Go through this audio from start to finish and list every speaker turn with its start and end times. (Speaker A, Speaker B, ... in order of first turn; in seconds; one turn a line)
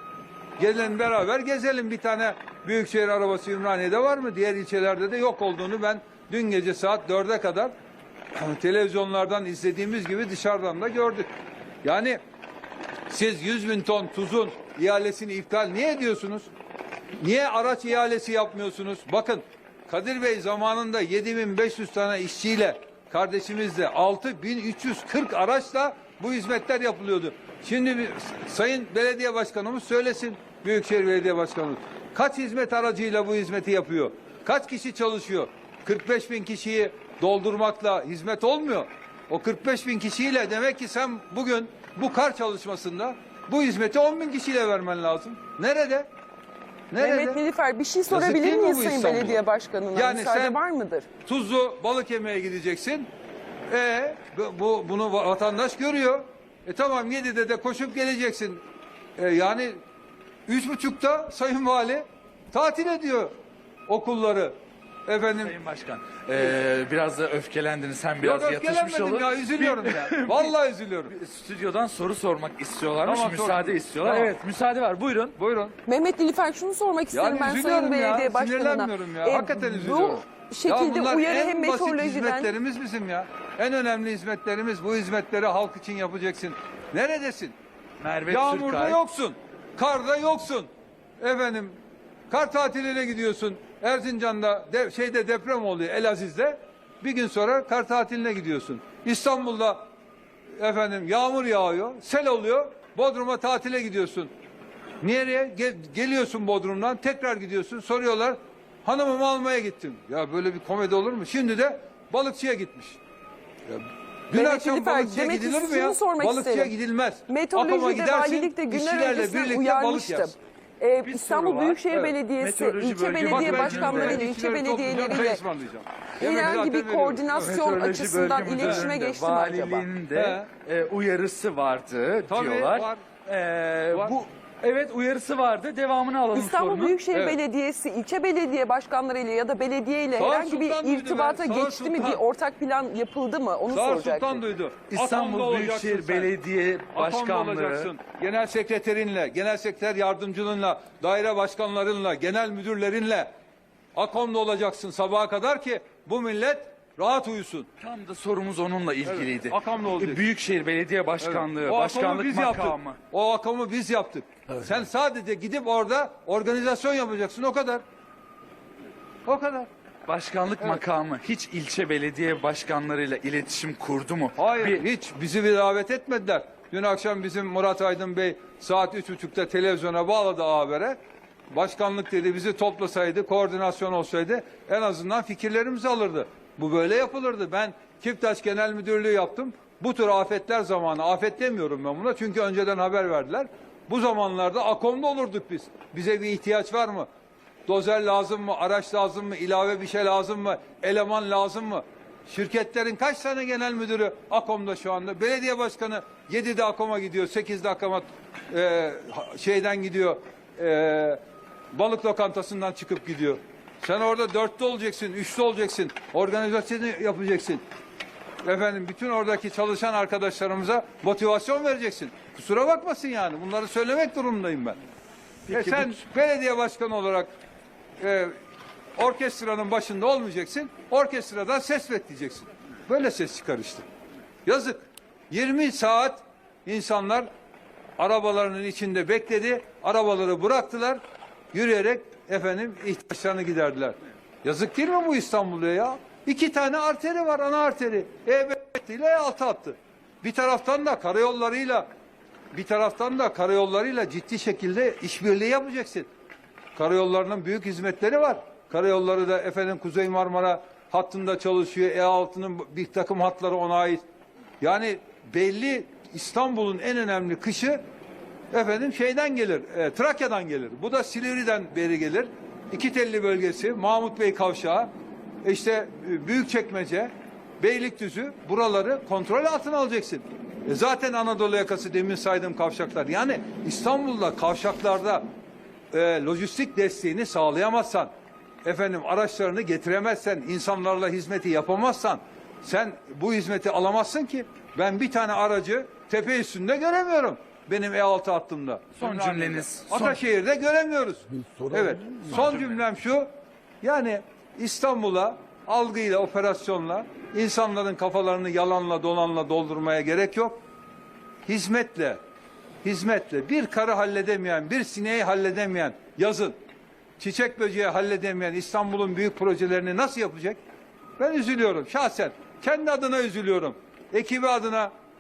Speaker A: 0.6-7.7
Speaker A: 8.3-11.3
Speaker A: 11.8-12.2
Speaker A: 13.1-16.5
Speaker A: 17.2-46.1
Speaker A: 46.9-47.4
Speaker B: 47.0-51.1
Speaker A: 48.1-49.4
Speaker A: 49.9-50.6
Speaker A: 51.2-53.1
Speaker A: 53.7-58.6
Speaker A: 59.2-59.8
Speaker A: 60.5-63.3
Speaker A: 63.9-64.5
Speaker A: 65.1-65.6
Speaker C: 65.4-70.5
Speaker A: 68.2-71.1
Speaker C: 71.1-75.3
Speaker A: 73.0-74.3
Speaker A: 75.4-75.7
Speaker B: 75.8-82.5
Speaker A: 77.1-87.5
Speaker C: 88.0-89.0
Speaker A: 88.3-90.7
Speaker A: 91.2-91.7
Speaker A: 92.3-99.8
Speaker A: 100.6-104.3
Speaker A: 105.0-113.0
Speaker A: 113.7-120.3
Speaker B: 114.3-116.7
Speaker B: 117.3-125.4
Speaker C: 121.0-124.2
Speaker A: 123.3-127.6
Speaker B: 126.2-129.9
Speaker C: 127.3-137.0
Speaker A: 128.6-128.8
Speaker A: 130.1-130.5
Speaker A: 132.3-133.0
Speaker B: 136.3-144.4
Speaker A: 137.1-137.4
Speaker A: 140.2-142.2
Speaker A: 143.7-146.3
Speaker C: 144.9-147.9
Speaker A: 146.9-153.3
Speaker A: 153.9-157.7
Speaker C: 157.8-163.0
Speaker A: 159.1-160.2
Speaker A: 161.2-167.8
Speaker A: 169.2-169.7
Speaker C: 170.1-174.8
Speaker A: 174.3-181.0
Speaker A: 181.5-197.1
Speaker A: 197.7-211.2
Speaker A: 211.7-217.6
Speaker A: 218.4-224.8
Speaker C: 225.5-226.0
Speaker A: 225.5-227.3
Speaker A: 228.0-228.3
Speaker A: 229.0-233.8
Speaker A: 234.4-237.3
Speaker A: 238.0-241.0
Speaker A: 241.5-251.9
Speaker A: 252.5-256.1
Speaker A: 256.8-264.0
Speaker A: 264.6-267.8
Speaker A: 268.5-274.9
Speaker A: 275.4-285.2
Speaker A: 285.9-288.1
Speaker A: 288.6-303.3
Speaker C: 298.9-300.2
Speaker C: 302.3-302.8
Speaker A: 303.8-310.6
Speaker A: 311.5-312.2
Speaker A: 312.8-316.6
Speaker A: 317.2-320.6
Speaker A: 321.2-324.9